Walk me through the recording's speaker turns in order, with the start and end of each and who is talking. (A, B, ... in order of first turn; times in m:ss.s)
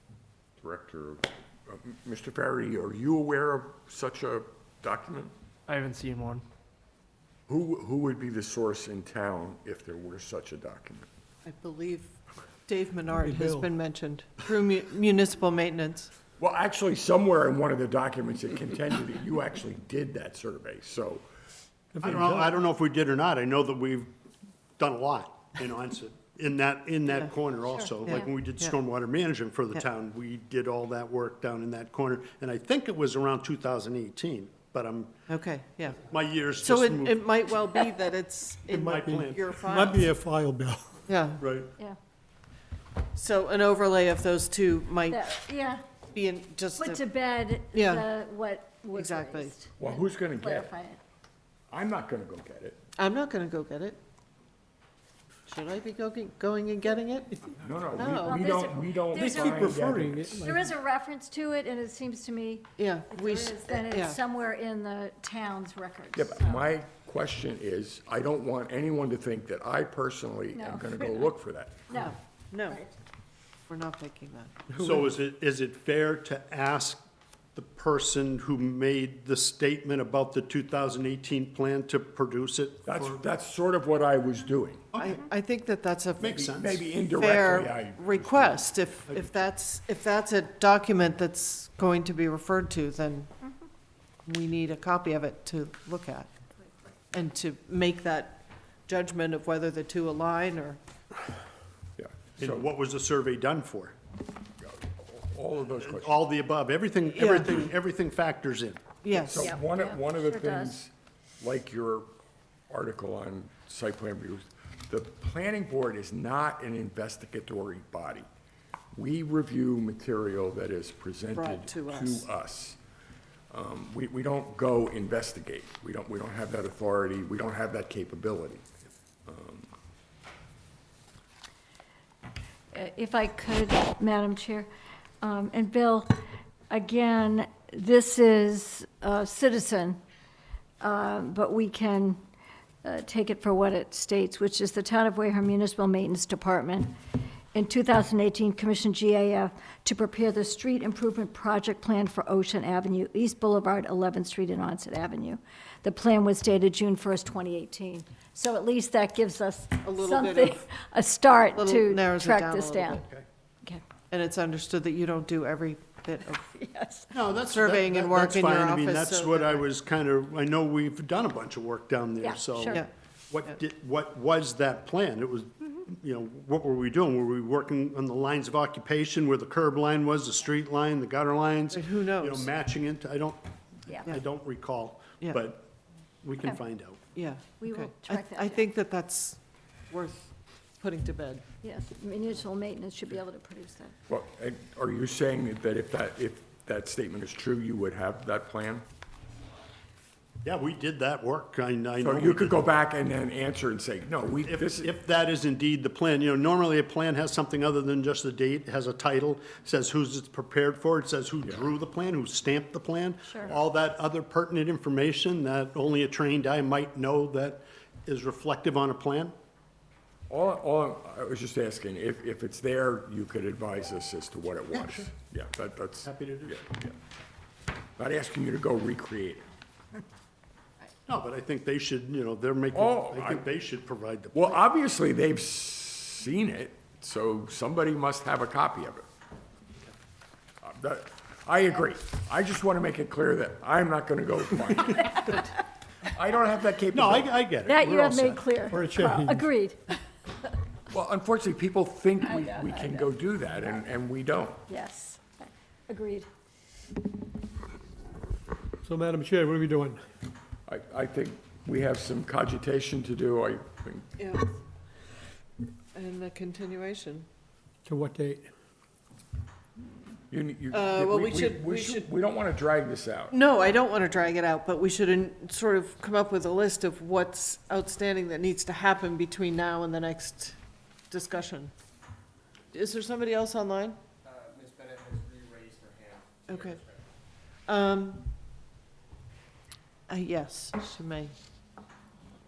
0:00.6-0:05.3 A
0:05.7-0:06.0 B
0:05.8-0:06.4 C
0:07.5-0:11.1 A
0:11.4-0:16.1 D
0:13.2-0:13.7 C
0:16.4-0:21.2 A
0:21.9-0:22.6 C
0:22.0-0:24.1 E
0:24.8-0:35.1 E
0:28.0-0:28.7 D
0:35.3-0:36.0 D
0:36.0-0:37.2 E
0:36.6-0:40.1 D
0:38.7-0:39.5 E
0:38.7-0:41.0 C
0:41.1-0:41.4 D
0:41.4-0:41.7 E
0:43.1-0:45.4 D
0:45.1-0:45.8 F
0:46.1-0:47.0 D
0:46.8-0:51.0 F
0:47.7-0:48.0 D
0:48.9-0:49.6 D
0:49.8-0:50.7 A
0:51.7-0:52.8 A
0:53.0-0:54.0 D
0:55.5-0:58.6 D
0:57.6-1:00.6 A
0:58.0-0:59.8 F
0:59.2-1:00.6 C
1:00.4-1:06.6 F
1:02.8-1:04.2 D
1:06.1-1:11.8 A
1:10.5-1:11.3 F
1:11.9-1:12.1 F
1:11.9-1:12.8 D
1:13.7-1:14.5 D
1:14.7-1:17.0 E
1:17.5-1:23.2 E
1:22.8-1:24.9 A
1:24.9-1:25.2 E
1:24.9-1:33.4 D
1:26.2-1:26.8 E
1:26.2-1:28.7 A
1:34.2-1:36.3 D
1:37.1-1:40.8 D
1:42.0-1:42.6 A
1:42.4-1:43.9 E
1:44.6-1:46.2 A
1:45.8-1:48.9 E
1:47.1-1:47.7 D
1:49.0-1:49.5 D
1:49.1-1:52.1 A
1:49.4-1:50.8 F
1:52.7-1:58.2 A
1:58.9-2:02.8 A
2:01.3-2:02.3 D
2:03.5-2:08.6 A
2:09.2-2:09.7 A
2:12.7-2:14.7 F
2:15.2-2:16.2 F
2:16.7-2:20.0 F
2:20.8-2:22.2 F
2:22.8-2:26.9 F
2:27.5-2:43.0 F
2:39.8-2:40.6 D
2:41.5-2:43.0 D
2:44.1-2:46.5 D
2:46.5-2:47.1 F
2:47.1-3:05.7 E
2:47.5-2:49.6 D
2:52.2-2:52.8 F
3:01.7-3:02.5 D
3:06.2-3:07.0 E
3:07.1-3:11.4 D
3:07.6-3:08.6 F
3:11.6-3:14.0 F
3:14.1-3:18.8 A
3:20.4-3:22.7 E
3:22.0-3:24.9 A
3:24.4-3:39.3 E
3:31.4-3:31.7 A
3:40.3-3:46.9 A
3:44.7-3:45.1 E
3:46.0-3:46.6 E
3:48.0-3:49.5 A
3:51.1-3:54.6 E
3:52.7-3:53.5 A
3:54.3-3:59.0 A
4:00.6-4:05.5 A
4:04.9-4:05.4 F
4:06.1-4:07.4 A
4:06.9-4:08.7 E
4:07.6-4:10.0 F
4:08.7-4:09.5 C
4:10.9-4:14.6 A
4:12.2-4:13.1 F
4:14.7-4:16.3 F
4:18.8-4:20.0 C
4:20.7-4:24.0 A
4:24.2-4:24.6 D
4:25.9-4:27.2 D
4:27.8-4:28.5 C
4:30.3-4:33.3 A
4:30.7-4:32.1 D
4:33.3-4:40.6 D
4:41.1-4:41.7 D
4:42.7-4:44.0 D
4:44.4-4:46.2 B
4:46.5-4:46.8 D
4:47.6-4:48.3 D
4:50.1-4:51.4 D